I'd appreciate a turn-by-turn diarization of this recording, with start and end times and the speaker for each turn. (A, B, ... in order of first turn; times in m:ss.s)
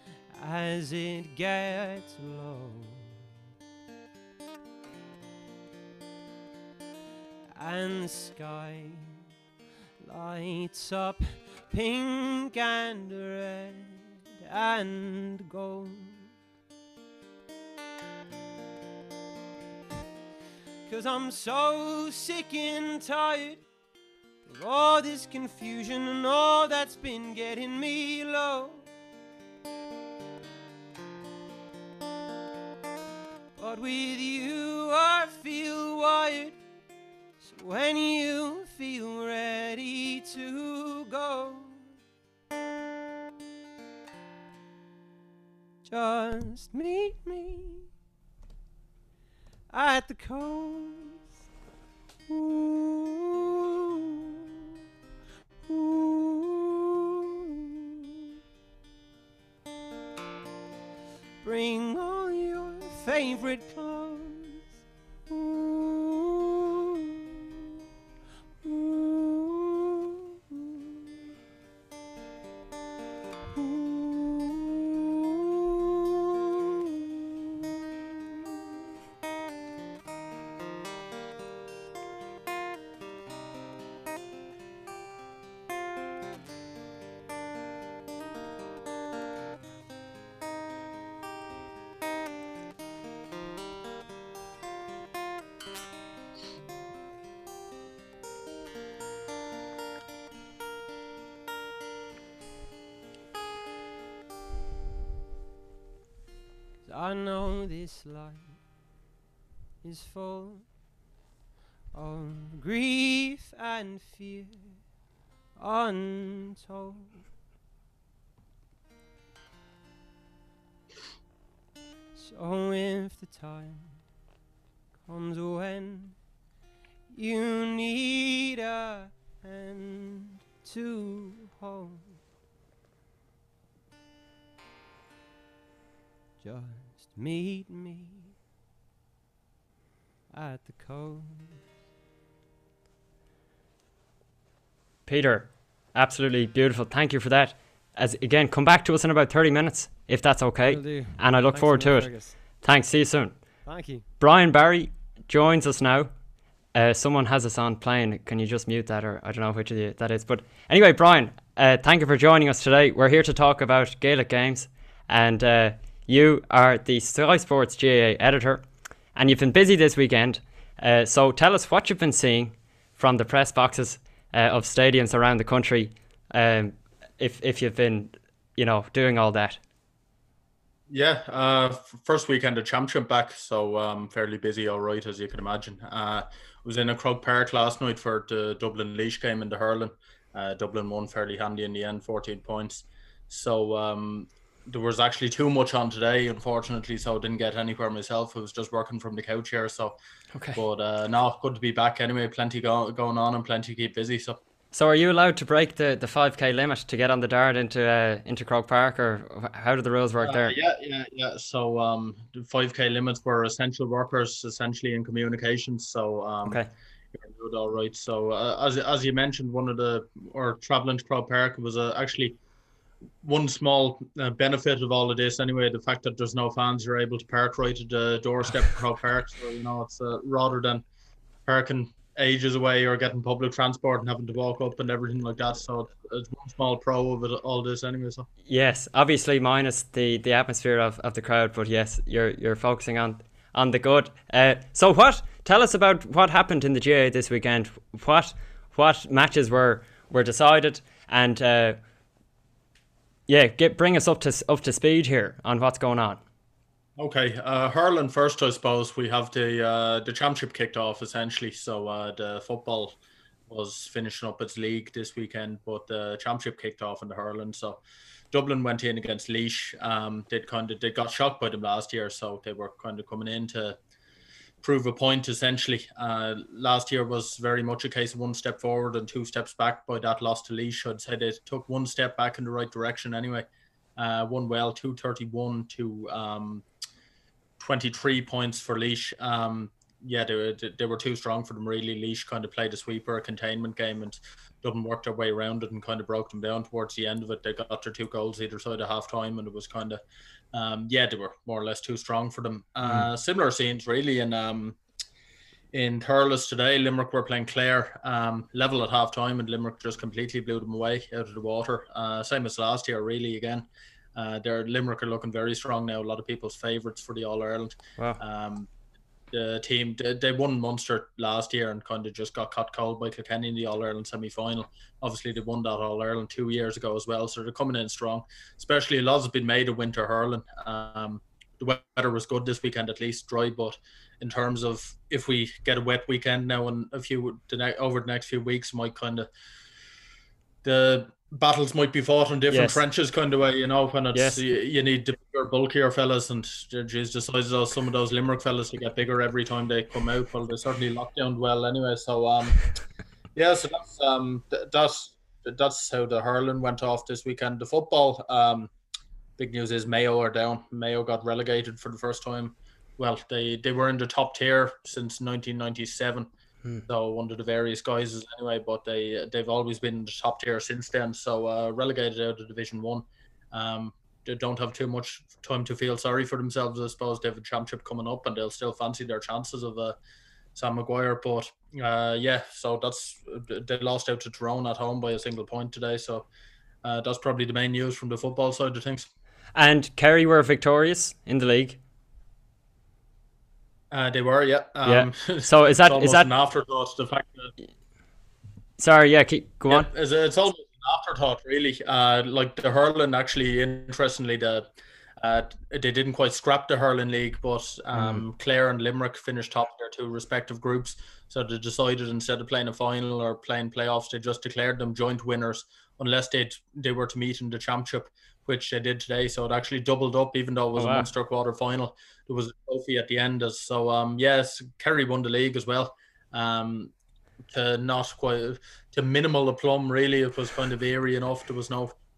0:00.3-0:03.2 A
0:07.6-0:09.2 A
0:10.0-0:16.4 A
0:20.9-0:23.6 A
0:24.4-0:28.9 A
0:33.6-0:36.6 A
0:37.4-0:41.9 A
0:45.8-0:47.9 A
0:49.7-0:51.3 A
0:52.3-0:53.6 A
0:55.6-0:57.1 A
1:01.4-1:04.8 A
1:05.3-1:06.4 A
1:08.6-1:09.9 A
1:13.5-1:14.9 A
1:46.8-1:48.6 A
1:49.8-1:50.7 A
1:51.9-1:54.8 A
1:55.6-1:57.2 A
2:02.1-2:04.0 A
2:05.0-2:06.2 A
2:07.1-2:12.2 A
2:16.4-2:18.4 A
2:20.3-2:21.6 A
2:25.1-2:33.7 B
2:30.6-2:32.4 C
2:33.6-2:34.0 C
2:34.2-2:36.1 B
2:36.7-2:48.6 B
2:49.1-2:59.6 B
3:00.9-3:20.0 D
3:20.3-3:20.6 B
3:20.6-3:24.4 D
3:24.7-3:30.6 B
3:30.2-3:36.6 D
3:37.2-3:42.4 D
3:43.2-3:50.8 D
3:51.4-3:58.3 D
3:58.4-4:11.8 B
4:13.3-4:16.2 B
4:17.0-4:23.0 D
4:23.5-4:27.8 D
4:28.3-4:33.8 D
4:34.6-4:43.4 D
4:44.0-4:46.6 D
4:47.6-5:00.0 D
5:00.5-5:04.8 D
5:05.7-5:18.7 D
5:19.3-5:39.3 D
5:40.6-5:52.7 D
5:42.5-5:42.8 B
5:44.1-5:44.4 B
5:53.4-5:58.7 D
5:59.4-6:06.3 D
6:06.9-6:20.0 D
6:20.6-6:26.3 D
6:26.8-6:29.1 D
6:29.6-6:31.8 B
6:33.9-6:37.5 D
6:34.8-6:36.3 B
6:38.8-6:39.9 B
6:39.7-6:44.7 D
6:45.2-7:06.9 D
6:47.9-6:48.2 B
7:00.8-7:01.1 B
7:07.5-7:11.9 D